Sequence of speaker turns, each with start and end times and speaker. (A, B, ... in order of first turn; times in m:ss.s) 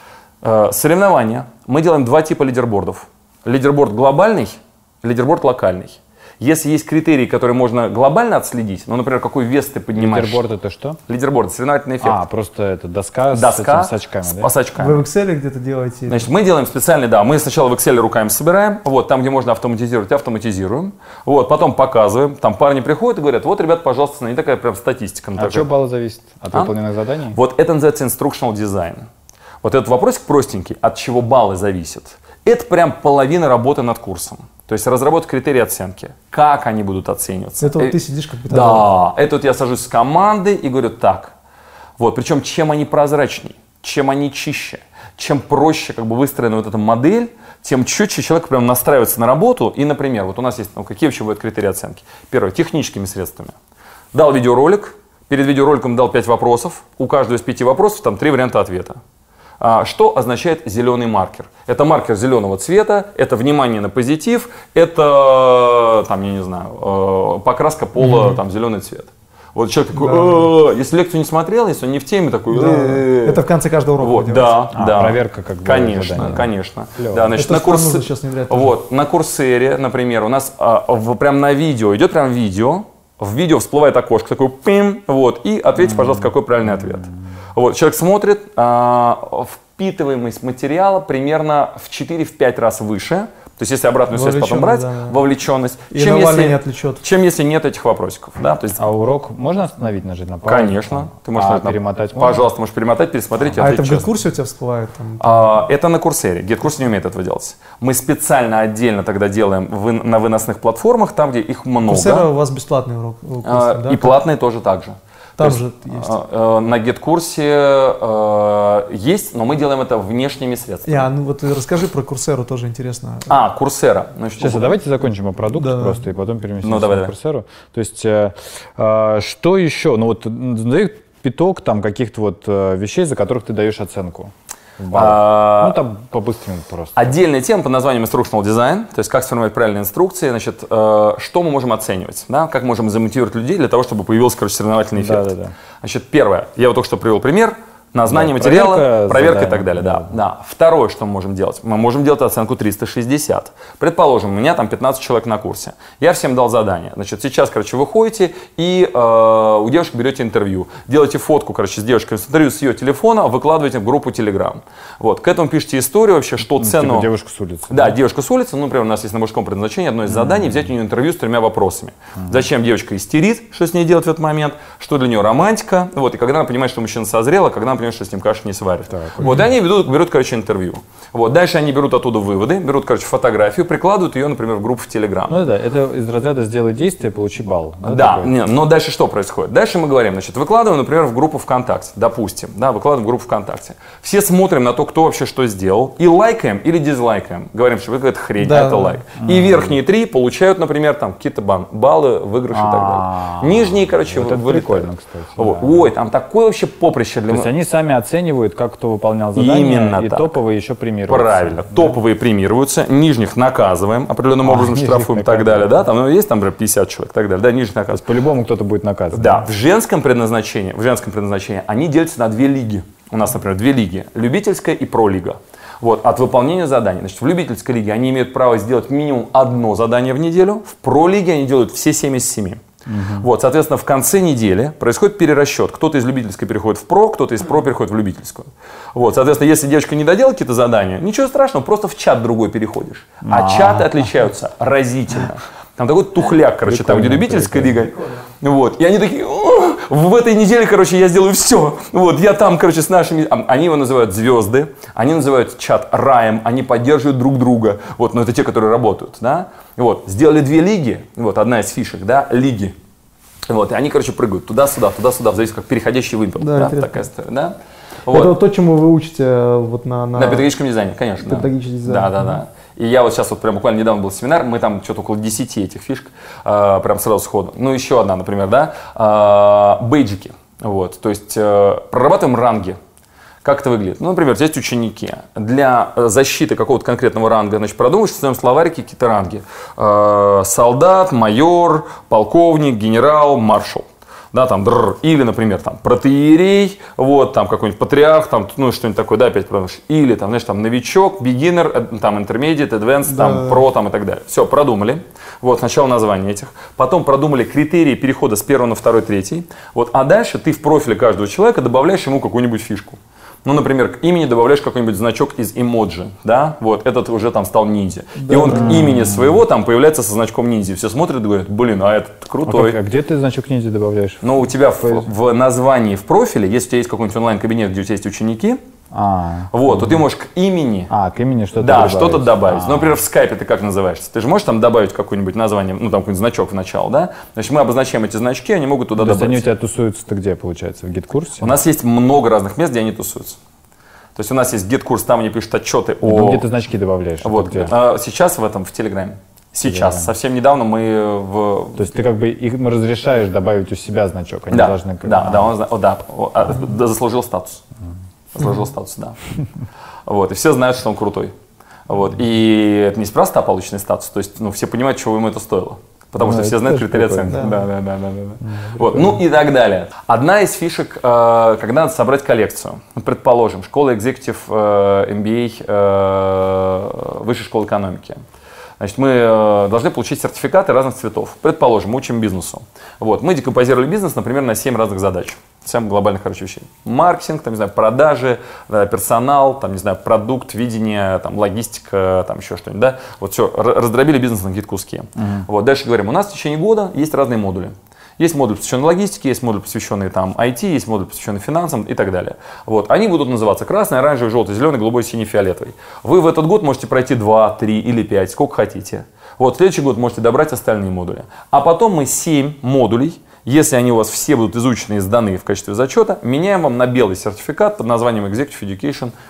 0:00.4-0:10.4 A
0:09.9-0:11.0 B
0:11.1-0:12.2 A
0:12.0-0:14.5 B
0:13.3-0:15.0 A
0:14.8-0:16.3 C
0:16.1-0:25.7 A
0:25.4-0:27.4 B
0:27.3-0:29.1 A
0:29.6-0:38.0 A
0:37.6-0:38.9 C
0:38.5-0:41.4 A
0:42.0-0:53.6 A
0:54.1-0:59.0 A
0:59.6-1:13.4 A
1:08.0-1:08.4 C
1:10.0-1:10.5 C
1:12.5-1:14.6 C
1:14.0-1:38.8 A
1:14.7-1:17.4 B
1:17.4-1:18.7 C
1:25.8-1:26.3 B
1:34.1-1:35.2 C
1:35.9-1:37.0 C
1:38.8-1:42.5 B
1:40.5-1:44.1 A
1:43.6-1:45.6 C
1:45.2-1:52.3 A
1:51.8-1:54.2 C
1:53.4-2:01.1 A
1:55.4-1:56.2 C
2:00.9-2:03.3 C
2:03.3-2:04.8 A
2:04.4-2:17.1 B
2:05.6-2:06.0 C
2:06.6-2:07.1 A
2:14.9-2:15.8 A
2:16.9-2:47.1 A
2:24.9-2:25.5 B
2:28.1-2:30.2 B
2:46.6-2:48.0 B
2:47.7-3:05.4 A
2:50.1-2:50.7 B
2:52.2-2:52.4 B
2:58.9-2:59.5 B
3:05.3-3:08.3 B
3:07.8-3:27.5 A
3:18.4-3:19.0 C
3:19.2-3:19.8 B
3:22.5-3:25.9 B
3:27.3-3:32.0 B
3:29.4-3:30.3 A
3:31.1-3:38.1 A
3:34.4-3:35.8 B
3:37.9-3:39.5 B
3:39.1-4:22.8 A
3:52.9-3:53.3 B
4:03.2-4:04.1 B
4:06.6-4:07.8 B
4:23.5-4:28.3 A
4:26.4-4:27.1 C
4:28.1-4:30.5 C
4:30.2-4:42.8 A
4:31.2-4:32.4 C
4:43.4-5:22.8 A
5:03.1-5:03.6 C
5:18.2-5:18.8 C
5:18.5-5:19.4 B
5:22.4-5:25.1 B
5:24.2-5:28.6 A
5:28.9-5:30.0 B
5:29.5-5:30.9 A
5:30.9-5:33.0 B
5:31.6-5:39.5 A
5:39.0-5:41.6 B
5:41.4-5:43.4 A
5:44.2-5:46.5 A
5:46.0-5:47.7 B
5:47.2-5:51.9 A
5:49.6-5:50.1 B
5:51.8-5:55.5 B
5:54.5-5:57.6 A
5:58.3-5:59.2 A
6:00.1-6:01.3 A
6:01.9-6:18.2 A
6:06.2-6:07.7 B
6:07.3-6:07.6 C
6:08.5-6:09.2 B
6:18.8-6:59.1 A